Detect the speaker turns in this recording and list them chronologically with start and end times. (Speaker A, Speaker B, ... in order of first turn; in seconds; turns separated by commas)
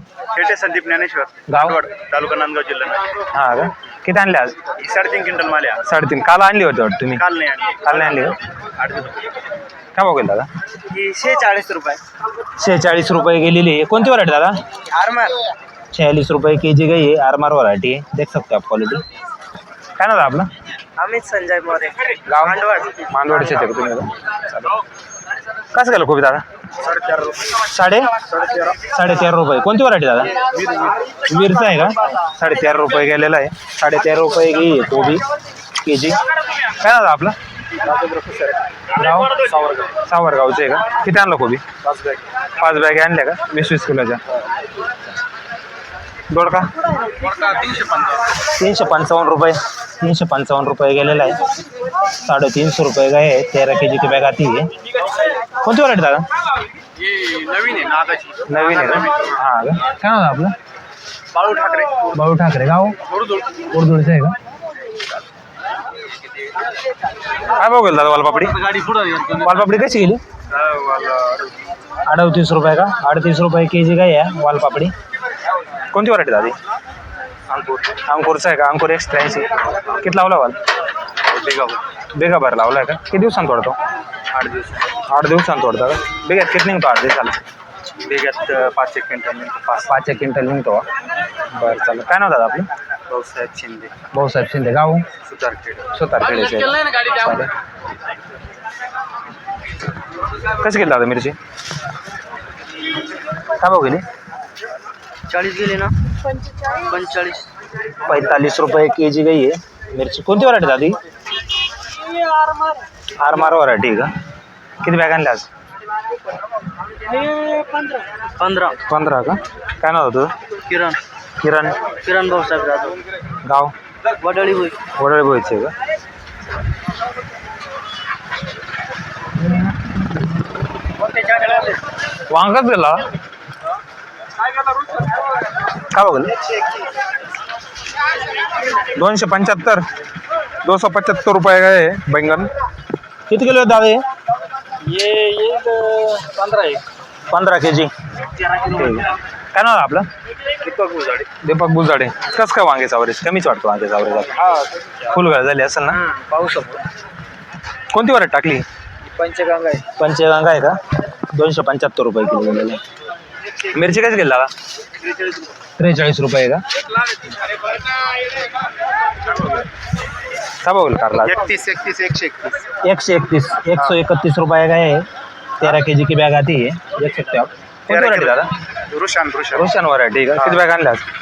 Speaker A: 0.3-3.0, Speaker B: 1.5-1.8, Speaker B: 3.3-4.6, Speaker A: 4.8-5.8, Speaker B: 5.8-7.2, Speaker A: 7.2-8.2, Speaker B: 7.8-8.4, Speaker A: 8.8-9.2, Speaker B: 9.9-10.5, Speaker C: 10.9-12.0, Speaker B: 12.6-14.6, Speaker C: 14.9-15.4, Speaker B: 15.9-19.0, Speaker B: 20.0-20.5, Speaker C: 21.0-22.7, Speaker B: 22.2-24.8, Speaker B: 25.7-26.4, Speaker A: 26.9-27.3, Speaker B: 27.6-28.2, Speaker A: 28.3-28.7, Speaker B: 28.8-30.4, Speaker B: 31.2-35.2, Speaker B: 35.8-36.2, Speaker B: 36.8-37.4, Speaker A: 37.9-38.5, Speaker B: 38.9-41.6, Speaker A: 41.8-42.2, Speaker B: 42.6-44.2, Speaker B: 46.3-46.7, Speaker A: 47.2-48.0, Speaker B: 48.5-51.4, Speaker B: 52.2-54.7, Speaker B: 55.6-56.3, Speaker A: 57.0-58.3, Speaker B: 58.5-60.6, Speaker A: 61.3-61.9, Speaker B: 62.1-63.0, Speaker B: 63.7-64.4, Speaker B: 67.5-68.7, Speaker B: 69.3-70.2, Speaker A: 70.5-71.5, Speaker B: 72.1-74.9, Speaker B: 75.9-76.6, Speaker A: 77.5-77.8, Speaker B: 77.9-80.6, Speaker A: 81.2-81.8, Speaker B: 82.1-83.8, Speaker A: 84.3-84.9, Speaker B: 85.0-87.4, Speaker A: 88.0-89.9, Speaker B: 89.8-90.9, Speaker B: 91.5-92.7, Speaker A: 93.1-93.9, Speaker B: 94.1-95.1, Speaker A: 95.2-95.8, Speaker B: 95.9-97.5, Speaker B: 100.5-101.4, Speaker B: 103.6-104.0, Speaker C: 105.3-105.9, Speaker C: 106.8-107.5, Speaker B: 108.0-111.0, Speaker B: 113.2-114.1, Speaker B: 114.8-115.5, Speaker C: 118.4-118.8, Speaker B: 118.9-120.3, Speaker C: 120.7-121.0, Speaker B: 121.4-121.8, Speaker C: 122.0-123.0, Speaker B: 123.4-123.7, Speaker C: 124.2-124.8, Speaker B: 125.0-125.7, Speaker B: 132.3-133.1, Speaker B: 135.8-136.3, Speaker B: 138.9-139.8, Speaker B: 140.6-142.5, Speaker B: 143.3-144.0, Speaker A: 144.8-146.8, Speaker B: 147.3-147.9, Speaker B: 148.6-150.1, Speaker A: 150.6-151.2, Speaker C: 150.7-151.1, Speaker B: 151.4-154.4, Speaker B: 155.0-156.0, Speaker C: 156.0-156.8, Speaker B: 157.9-158.6, Speaker C: 159.1-159.8, Speaker B: 159.9-160.8, Speaker B: 161.3-162.8, Speaker B: 163.6-164.5, Speaker B: 165.8-166.6, Speaker B: 170.6-171.5, Speaker A: 171.4-172.5, Speaker B: 172.8-175.1, Speaker B: 175.6-178.5, Speaker A: 177.9-178.4, Speaker A: 178.9-179.6, Speaker B: 179.5-181.1